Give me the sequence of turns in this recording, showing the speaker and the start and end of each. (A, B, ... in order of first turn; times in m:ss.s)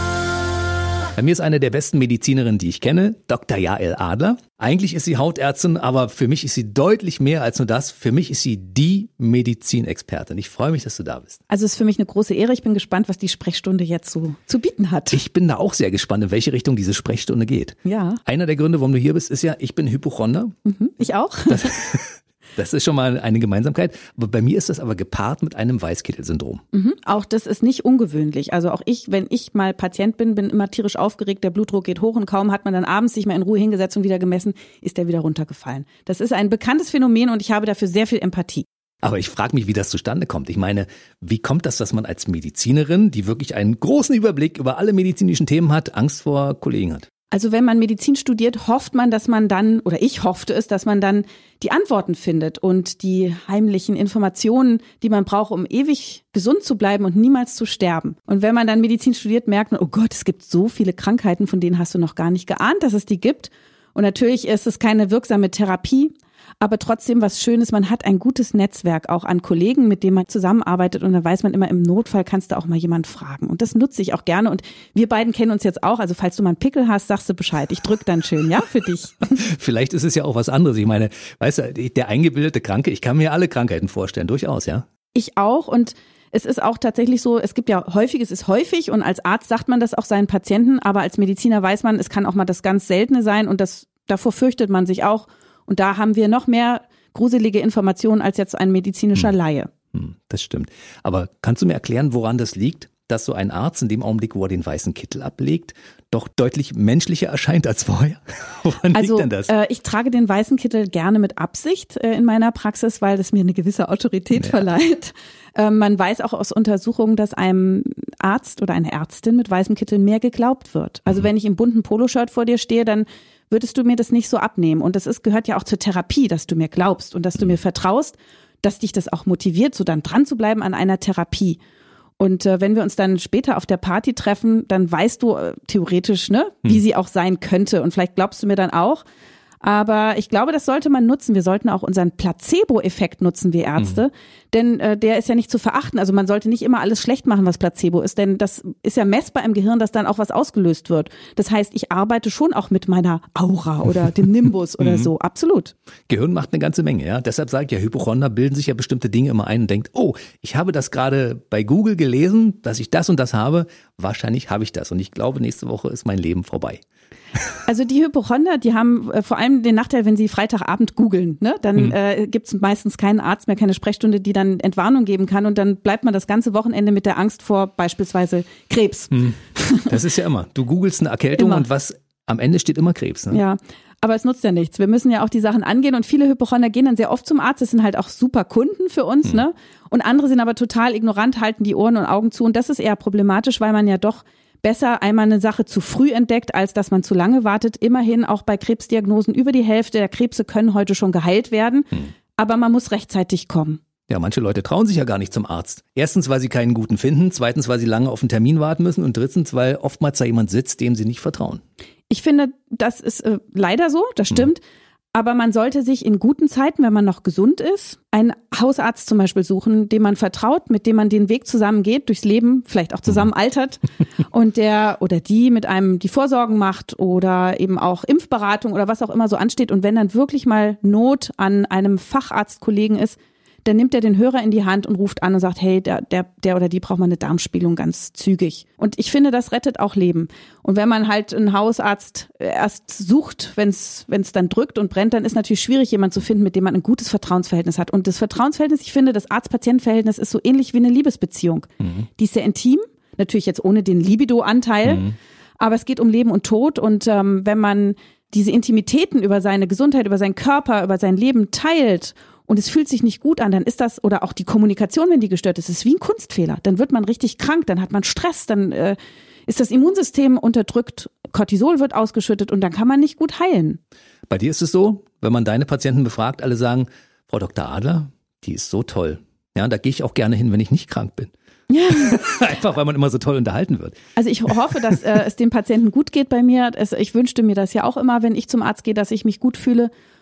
0:01.1-0:11.4 A
0:11.5-0:15.2 B
0:15.1-0:20.5 A
0:17.8-0:18.2 B
0:20.6-0:21.8 B
0:21.5-0:26.6 A
0:26.7-0:38.6 B
0:39.0-0:47.1 A
0:47.3-1:19.4 B
1:19.3-1:24.8 A
1:25.1-1:39.7 B
1:39.9-1:49.5 A
1:48.9-2:11.6 B
1:54.4-1:54.6 A
2:12.2-2:19.0 B
2:19.6-2:35.7 B
2:34.8-2:35.1 A
2:36.1-2:46.8 A
2:47.6-3:00.0 B
2:59.1-3:03.4 A
3:01.4-3:01.6 B
3:03.3-3:23.8 B
3:24.1-3:31.6 A
3:32.1-3:34.6 B
3:35.1-4:15.1 B
4:14.9-4:15.1 A
4:15.6-4:33.8 B
4:34.3-4:41.3 A
4:41.7-4:42.2 B
4:41.9-4:44.0 A
4:44.2-4:49.9 B